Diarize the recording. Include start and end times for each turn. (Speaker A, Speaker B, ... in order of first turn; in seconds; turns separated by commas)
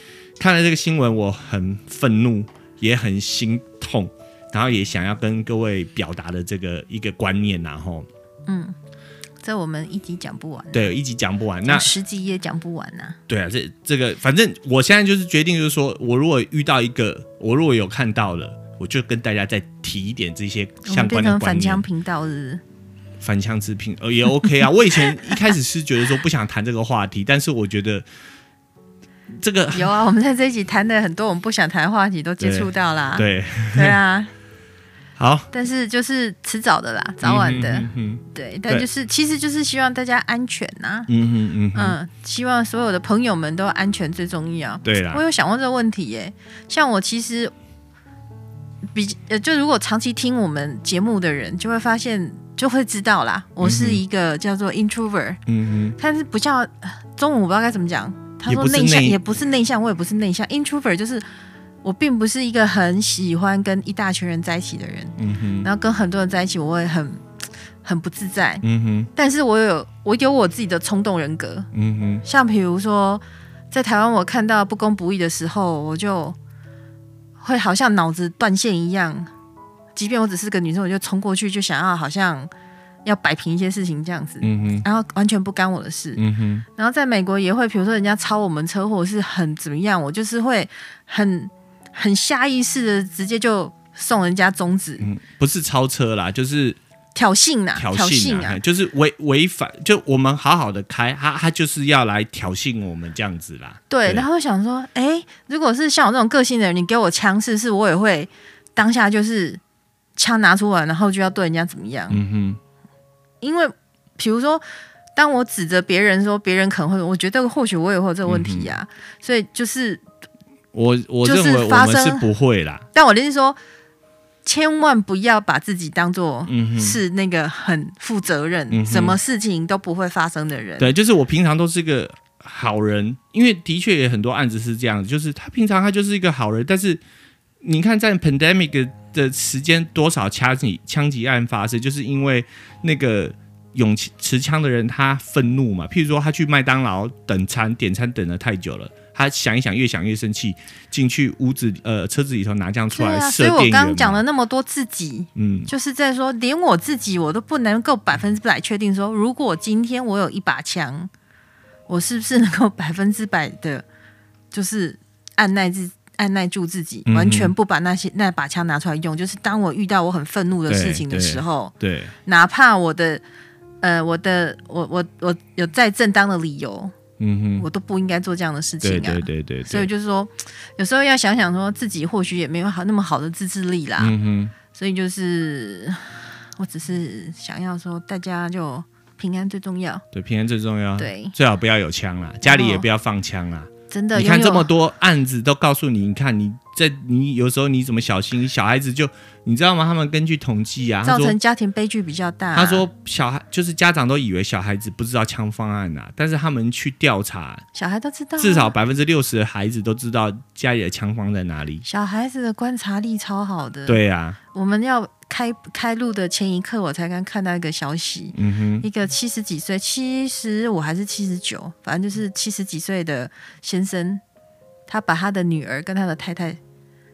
Speaker A: 0.4-8.1, Speaker B: 8.5-8.7, Speaker B: 9.4-10.9, Speaker A: 10.7-11.9, Speaker B: 11.7-13.2, Speaker A: 13.3-21.9, Speaker B: 20.8-22.6, Speaker A: 23.2-28.1, Speaker B: 25.1-25.4, Speaker A: 29.3-29.9, Speaker B: 29.7-34.3, Speaker A: 32.4-34.0, Speaker A: 35.2-35.5, Speaker B: 35.5-41.1, Speaker A: 37.2-38.9, Speaker A: 41.1-42.0, Speaker B: 41.7-47.5, Speaker A: 44.8-45.2, Speaker B: 48.9-55.4, Speaker A: 53.6-54.0, Speaker A: 55.5-56.0, Speaker B: 56.0-61.2, Speaker A: 58.5-59.2, Speaker B: 61.8-67.2, Speaker A: 65.2-65.7, Speaker B: 67.8-68.6, Speaker A: 68.6-69.1, Speaker B: 69.2-71.7, Speaker A: 71.7-72.2, Speaker B: 72.2-76.3, Speaker B: 77.4-79.3, Speaker B: 79.9-82.5, Speaker B: 83.0-86.2, Speaker A: 84.4-84.8, Speaker A: 86.2-86.7, Speaker B: 86.8-95.1, Speaker A: 95.0-96.8, Speaker B: 97.1-98.6, Speaker A: 97.8-104.3, Speaker B: 103.9-109.6, Speaker B: 110.2-112.2, Speaker A: 112.1-112.6, Speaker B: 113.4-114.6, Speaker B: 115.2-120.0, Speaker A: 118.3-118.7, Speaker A: 120.7-122.9, Speaker B: 121.2-122.2, Speaker B: 122.9-123.6, Speaker B: 124.4-130.9, Speaker A: 126.5-127.0, Speaker A: 128.7-129.2, Speaker A: 130.8-137.0, Speaker A: 137.6-154.2, Speaker B: 152.9-161.1, Speaker A: 155.3-155.7, Speaker B: 161.9-163.8, Speaker B: 164.5-171.7, Speaker A: 167.1-167.5, Speaker A: 170.7-172.1, Speaker B: 172.2-173.2, Speaker B: 173.8-176.9, Speaker A: 177.2-177.7, Speaker B: 177.6-184.1, Speaker A: 178.8-179.9, Speaker A: 184.0-184.5, Speaker B: 184.7-190.0, Speaker A: 190.1-201.4, Speaker B: 191.0-191.3, Speaker B: 192.4-192.8, Speaker B: 193.9-194.7, Speaker B: 201.0-202.8, Speaker A: 202.5-207.6, Speaker B: 207.7-208.7, Speaker A: 208.4-211.8, Speaker B: 211.8-214.0, Speaker A: 213.9-214.4, Speaker B: 214.5-224.2, Speaker A: 218.3-218.9, Speaker B: 224.9-226.6